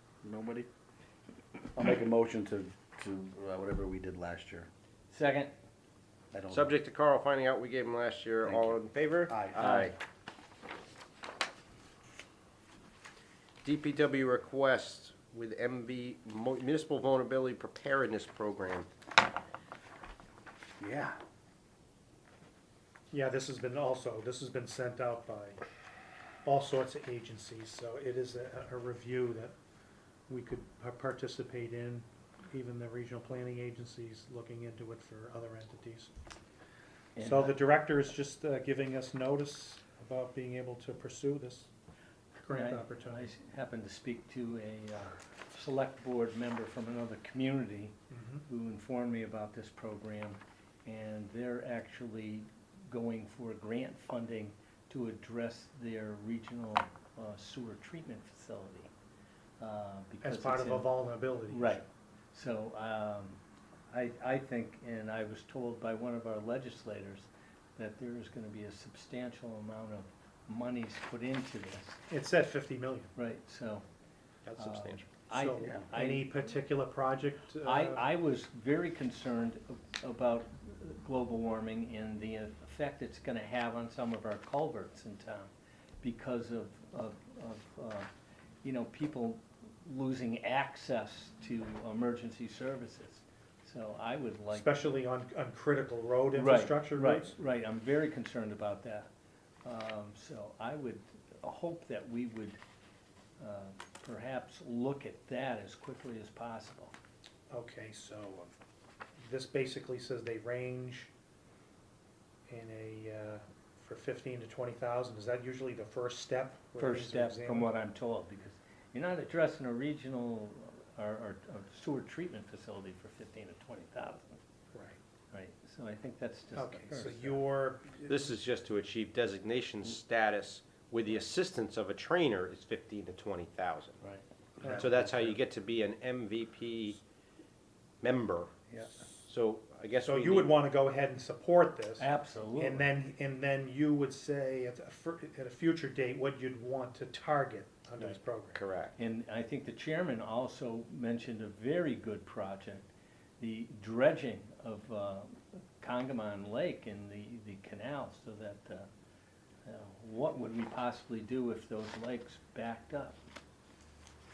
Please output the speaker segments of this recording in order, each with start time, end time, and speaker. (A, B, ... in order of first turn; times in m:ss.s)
0:00.2-0:00.7 A
0:01.7-0:04.7 A
0:05.1-0:05.5 B
0:06.3-0:06.7 A
0:06.5-0:09.9 C
0:08.4-0:09.9 A
0:13.6-0:18.9 C
0:20.8-0:21.2 A
0:23.1-0:25.6 D
0:26.4-0:29.5 D
0:30.3-0:36.1 D
0:37.2-0:37.6 B
0:37.2-0:41.7 D
0:42.3-0:43.3 D
0:42.5-0:47.9 B
0:48.1-0:48.4 D
0:48.5-0:58.9 B
0:59.6-1:03.4 B
1:00.2-1:01.8 D
1:03.9-1:12.0 B
1:12.1-1:13.1 D
1:13.2-1:13.8 B
1:14.4-1:15.1 C
1:14.6-1:18.1 D
1:14.6-1:16.6 B
1:17.6-1:28.1 B
1:28.6-1:34.7 B
1:34.5-1:37.4 D
1:36.3-1:39.1 B
1:39.6-1:42.6 B
1:43.4-1:46.9 B
1:47.5-1:48.5 D
1:49.2-1:51.1 D
1:52.5-1:57.7 D
1:56.8-2:04.4 B
2:04.7-2:05.0 D
2:05.3-2:07.4 B
2:06.5-2:08.3 D
2:08.1-2:14.0 C
2:14.0-2:15.0 B
2:14.6-2:15.2 D
2:14.6-2:17.0 C
2:18.0-2:18.5 C
2:19.2-2:20.6 C
2:20.0-2:28.6 D
2:22.0-2:22.8 B
2:28.5-2:28.9 C
2:29.0-2:38.9 B
2:39.6-2:43.2 B